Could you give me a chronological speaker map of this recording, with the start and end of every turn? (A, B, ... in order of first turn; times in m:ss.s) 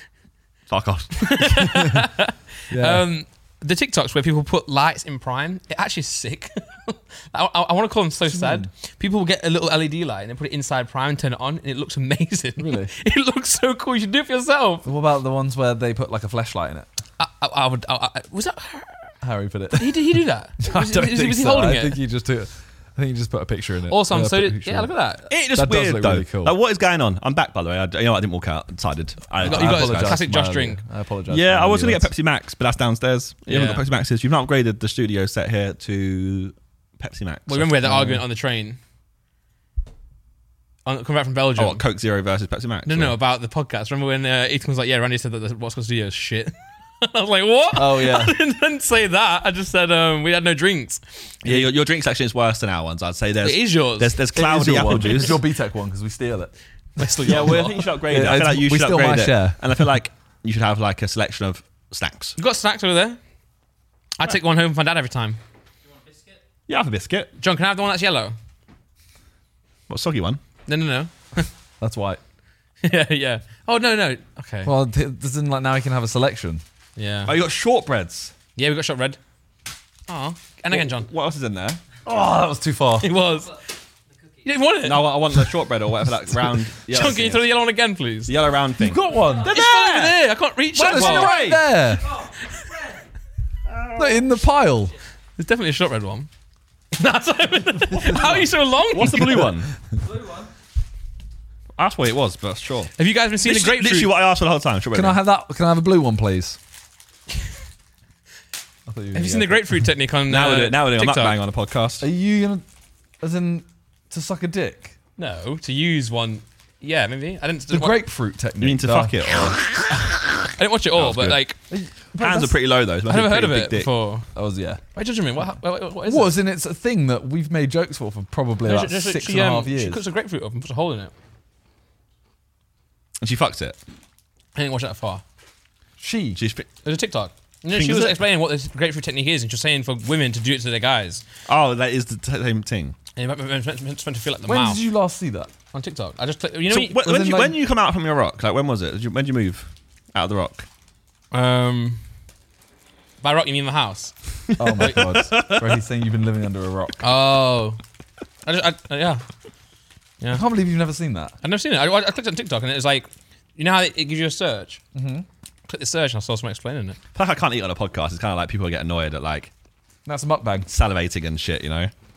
0:00.7-0:01.7 A
0:01.2-0:14.9 B
0:02.7-0:03.0 C
0:08.3-0:08.7 C
0:12.6-0:12.9 C
0:14.8-0:16.9 C
0:17.2-0:19.1 B
0:19.2-0:24.9 C
0:19.7-0:22.0 B
0:23.9-0:25.3 B
0:25.3-0:30.2 A
0:25.5-0:26.6 C
0:29.4-0:32.1 C
0:29.4-0:30.8 B
0:31.3-0:37.8 A
0:33.4-0:33.8 B
0:37.5-0:38.8 B
0:37.8-0:38.2 C
0:40.8-0:41.8 B
0:41.6-0:43.2 A
0:42.8-0:51.6 B
0:47.7-0:48.4 C
0:51.4-0:55.4 A
0:53.4-0:54.2 B
0:54.3-0:59.8 C
0:57.0-0:57.9 B
0:57.2-1:02.4 A
1:02.4-1:03.2 B
1:04.2-1:05.4 B
1:05.8-1:06.4 D
1:06.7-1:07.3 A
1:07.4-1:08.4 B
1:09.9-1:10.4 A
1:10.7-1:11.5 B
1:11.8-1:12.2 C
1:12.8-1:14.7 B
1:14.6-1:16.6 C
1:17.0-1:17.3 B
1:17.2-1:18.3 A
1:18.6-1:19.2 B
1:20.1-1:21.1 B
1:20.7-1:21.8 A
1:22.0-1:23.1 C
1:23.0-1:23.6 B
1:24.1-1:24.5 D
1:24.4-1:25.4 B
1:24.8-1:27.5 A
1:26.9-1:28.4 B
1:28.3-1:30.2 A
1:28.8-1:29.6 C
1:29.0-1:29.4 D
1:29.4-1:31.4 B
1:30.7-1:32.2 C
1:30.8-1:31.7 A
1:31.9-1:33.0 D
1:33.7-1:34.2 A
1:34.0-1:34.9 C
1:35.4-1:36.3 B
1:36.9-1:39.5 B
1:38.9-1:39.7 A
1:40.0-1:40.5 D
1:41.8-1:45.2 A
1:43.0-1:44.1 B
1:44.9-1:46.6 C
1:48.9-1:49.8 C
1:49.1-1:51.4 B
1:50.3-1:52.1 A
1:52.0-1:52.6 C
1:53.2-1:54.9 C
1:55.2-1:58.0 B
1:57.7-1:59.3 C
1:58.6-1:59.6 A
1:59.9-2:01.6 B
2:00.9-2:01.5 A
2:01.7-2:02.6 C
2:02.2-2:03.9 A
2:03.1-2:04.3 B
2:04.3-2:04.8 C
2:04.9-2:06.4 B
2:06.0-2:10.0 C
2:08.6-2:11.1 B
2:13.2-2:13.8 A
2:14.5-2:15.2 B
2:16.0-2:16.4 C
2:16.4-2:16.7 A
2:16.8-2:21.2 B
2:17.7-2:18.2 A
2:21.5-2:22.9 A
2:23.2-2:24.8 B
2:24.4-2:25.5 C
2:25.7-2:27.0 B
2:26.7-2:30.6 A
2:26.9-2:27.6 C
2:31.3-2:32.0 B
2:33.2-2:35.0 B
2:34.6-2:35.8 A
2:34.6-2:37.0 C
2:37.0-2:37.8 B
2:38.4-2:39.2 B
2:40.3-2:41.3 C
2:41.4-2:44.8 B
2:44.9-2:45.3 C
2:45.7-2:47.0 B
2:47.1-2:49.5 A
2:50.0-2:50.7 C
2:50.7-2:51.9 A